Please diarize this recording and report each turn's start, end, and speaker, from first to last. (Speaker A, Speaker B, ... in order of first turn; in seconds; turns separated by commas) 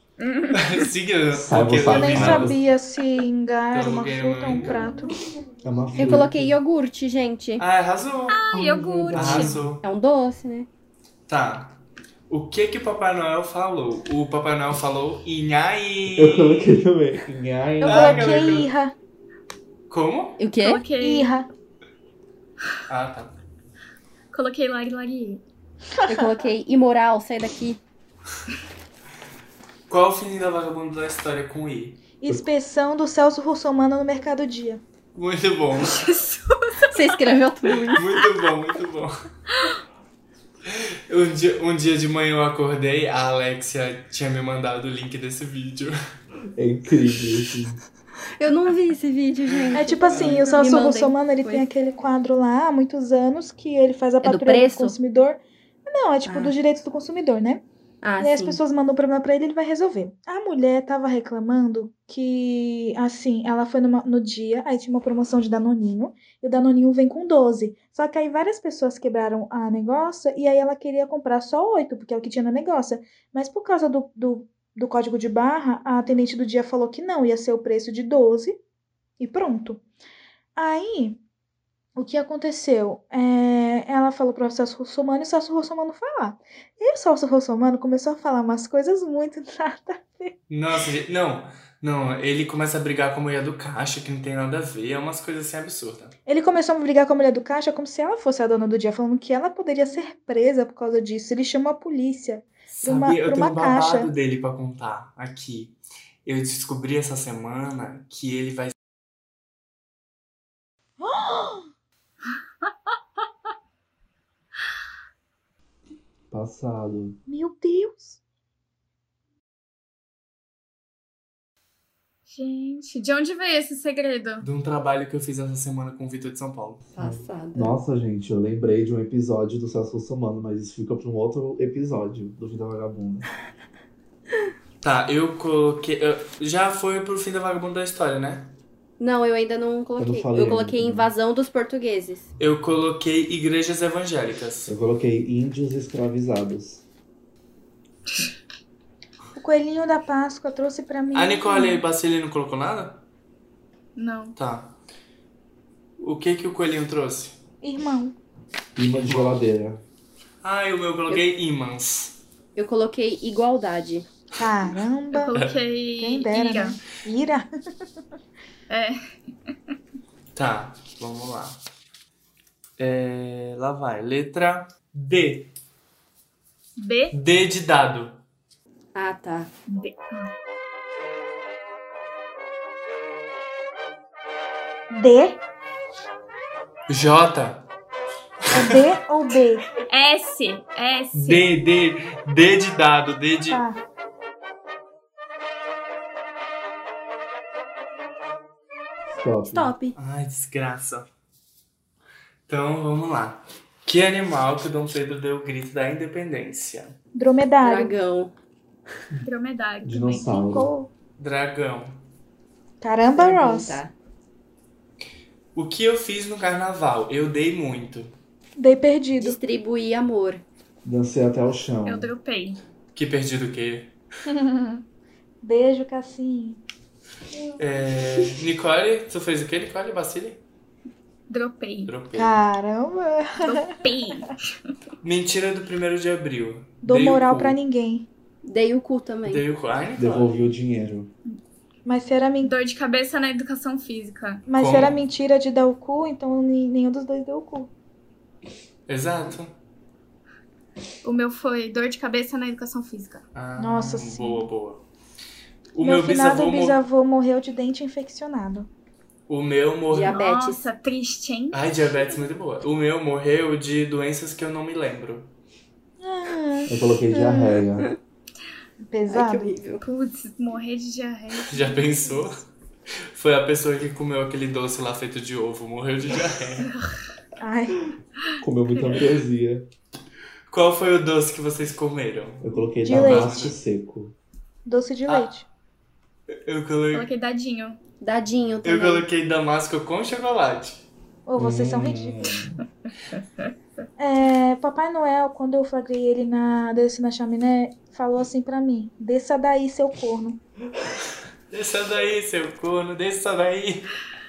Speaker A: 0.2-0.9, Speaker B: 0.5-2.6, Speaker C: 1.3-2.6, Speaker D: 1.9-5.1, Speaker B: 3.7-4.9, Speaker C: 5.6-6.6, Speaker E: 5.9-7.6, Speaker B: 7.6-8.5, Speaker A: 8.3-9.6, Speaker C: 8.5-9.7, Speaker B: 9.1-9.8, Speaker E: 9.8-10.7, Speaker B: 11.3-16.8, Speaker C: 16.1-18.6, Speaker D: 17.8-18.9, Speaker B: 17.8-18.7, Speaker B: 19.9-20.4, Speaker E: 20.4-20.9, Speaker A: 20.6-21.3, Speaker D: 21.0-21.5, Speaker B: 22.9-23.3, Speaker A: 24.3-25.4, Speaker E: 26.1-27.8, Speaker B: 29.9-32.0, Speaker D: 32.2-34.8, Speaker B: 35.1-36.1, Speaker A: 35.8-36.9, Speaker E: 36.9-38.1, Speaker B: 37.9-39.1, Speaker B: 40.6-46.0, Speaker C: 46.5-47.8, Speaker E: 48.4-51.6, Speaker D: 49.7-57.6, Speaker B: 50.1-50.5, Speaker E: 54.2-55.0, Speaker E: 56.2-56.5, Speaker E: 58.0-58.6, Speaker D: 58.2-78.6, Speaker D: 79.2-79.8, Speaker D: 80.5-81.2, Speaker D: 82.0-90.3, Speaker B: 90.5-96.1, Speaker D: 96.3-104.1, Speaker B: 102.7-108.7, Speaker D: 111.0-111.6, Speaker C: 116.3-117.2, Speaker D: 117.3-118.2, Speaker A: 122.3-124.5, Speaker B: 124.4-126.8, Speaker E: 126.9-127.7, Speaker C: 127.0-133.3, Speaker B: 134.8-138.5, Speaker E: 139.0-142.2, Speaker C: 140.0-141.1, Speaker B: 142.4-144.7, Speaker C: 144.7-146.8, Speaker D: 149.3-151.8, Speaker B: 151.1-153.0, Speaker A: 153.9-154.4, Speaker B: 154.3-154.8, Speaker B: 156.0-157.4, Speaker D: 157.6-158.2, Speaker C: 158.8-159.8, Speaker B: 158.9-159.4, Speaker B: 160.4-162.2, Speaker E: 162.6-164.1, Speaker D: 164.3-165.3, Speaker A: 165.1-166.8, Speaker D: 166.0-167.5, Speaker A: 168.7-169.0, Speaker B: 170.3-171.6, Speaker B: 172.8-175.5, Speaker A: 176.8-177.1, Speaker B: 177.1-178.2, Speaker E: 178.9-179.5, Speaker A: 179.7-180.3, Speaker D: 184.9-185.4, Speaker B: 186.9-187.7, Speaker B: 188.5-188.8, Speaker D: 188.5-189.7, Speaker A: 189.8-191.5, Speaker B: 191.1-193.6, Speaker D: 193.5-193.8, Speaker C: 199.1-199.7, Speaker E: 199.5-199.9, Speaker B: 199.9-201.1, Speaker B: 202.5-206.9, Speaker D: 207.1-207.9, Speaker E: 207.6-208.3, Speaker A: 209.2-210.3, Speaker C: 209.8-210.7, Speaker D: 210.3-210.9, Speaker B: 211.2-212.0, Speaker D: 212.8-213.8, Speaker E: 213.1-213.9, Speaker B: 215.5-218.1, Speaker D: 218.6-219.4, Speaker E: 219.2-220.4, Speaker C: 220.8-222.1, Speaker A: 221.8-222.6, Speaker B: 222.9-223.9, Speaker D: 224.3-224.8, Speaker D: 225.4-226.6, Speaker B: 227.6-230.4, Speaker A: 231.3-231.9, Speaker B: 231.8-232.4, Speaker D: 232.1-233.7, Speaker A: 233.4-234.5, Speaker B: 235.0-237.6, Speaker D: 236.8-238.1, Speaker E: 238.4-239.4, Speaker B: 239.2-240.4, Speaker C: 240.0-241.1, Speaker D: 241.8-242.5, Speaker A: 242.4-244.4, Speaker D: 244.5-247.7, Speaker B: 244.6-245.0, Speaker B: 248.9-249.5, Speaker A: 251.0-253.2, Speaker B: 253.3-254.8, Speaker D: 253.6-254.4, Speaker B: 255.7-256.8, Speaker D: 255.8-258.7, Speaker B: 259.3-260.2, Speaker E: 259.9-260.6, Speaker A: 260.1-261.6, Speaker B: 261.5-265.3, Speaker D: 266.0-266.8, Speaker C: 266.7-267.9, Speaker E: 267.1-268.0, Speaker D: 268.9-269.5, Speaker E: 269.1-269.8, Speaker A: 269.8-272.2, Speaker B: 271.5-272.4, Speaker B: 273.1-276.7, Speaker A: 276.6-276.9, Speaker D: 277.4-277.9, Speaker A: 278.3-279.0, Speaker C: 278.4-279.7, Speaker B: 280.5-283.6, Speaker C: 282.4-284.1, Speaker D: 282.8-283.3, Speaker D: 284.6-285.4, Speaker B: 285.1-285.3, Speaker B: 286.3-287.1, Speaker A: 286.9-287.8, Speaker E: 288.0-289.0, Speaker B: 288.6-290.9, Speaker D: 291.2-292.3, Speaker C: 291.4-292.6, Speaker D: 294.0-300.4, Speaker B: 301.5-303.9